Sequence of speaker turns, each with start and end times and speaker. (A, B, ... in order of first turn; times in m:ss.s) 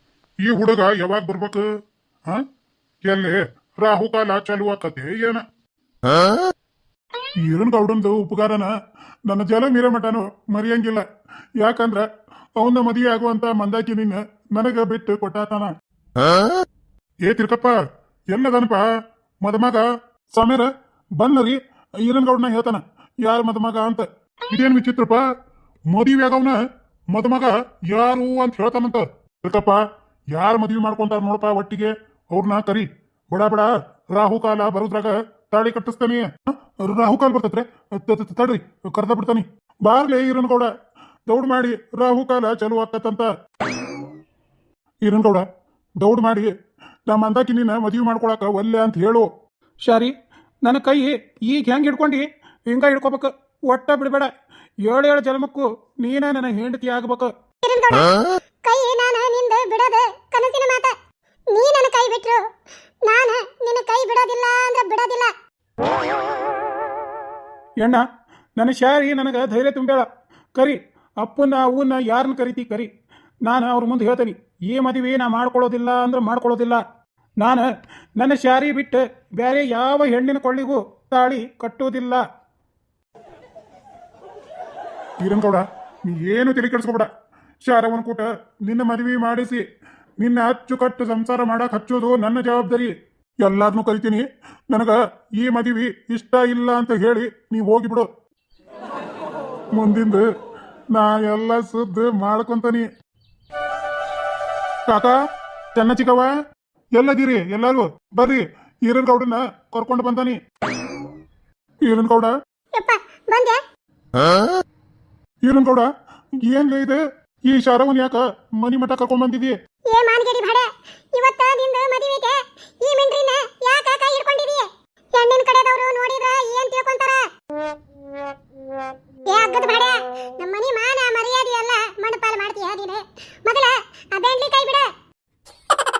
0:00.4-0:01.7 A
0:03.0-0:05.4 A
0:07.4-0:08.7 A
0:09.3-0:11.0 A
0:11.6-0:12.0 A
0:12.6-0:15.7 A
0:17.2-0:17.8 A
0:18.3-0:18.8 A
0:19.4-0:25.2 A
0:25.9-0:40.7 A
0:41.3-0:43.3 A
0:45.0-0:45.4 A
0:46.0-0:46.5 A
0:47.1-0:49.3 A
0:49.8-0:50.1 B
0:50.6-0:54.3 B
0:54.9-0:57.3 B
0:57.6-1:00.9 C
1:01.5-1:02.4 C
1:03.0-1:05.3 C
1:08.6-1:12.9 B
1:13.4-1:16.7 B
1:15.6-1:15.9 A
1:18.2-1:22.2 B
1:25.2-1:27.1 A
1:27.6-1:29.6 A
1:30.2-1:38.1 A
1:39.7-1:40.2 A
1:40.9-1:42.9 A
1:44.9-1:45.1 A
1:45.7-1:46.3 A
1:47.0-1:50.4 A
1:51.8-1:52.3 A
1:52.8-1:53.6 C
1:55.4-1:55.9 A
1:56.4-1:59.6 A
1:59.9-2:07.2 C
2:09.2-2:14.9 C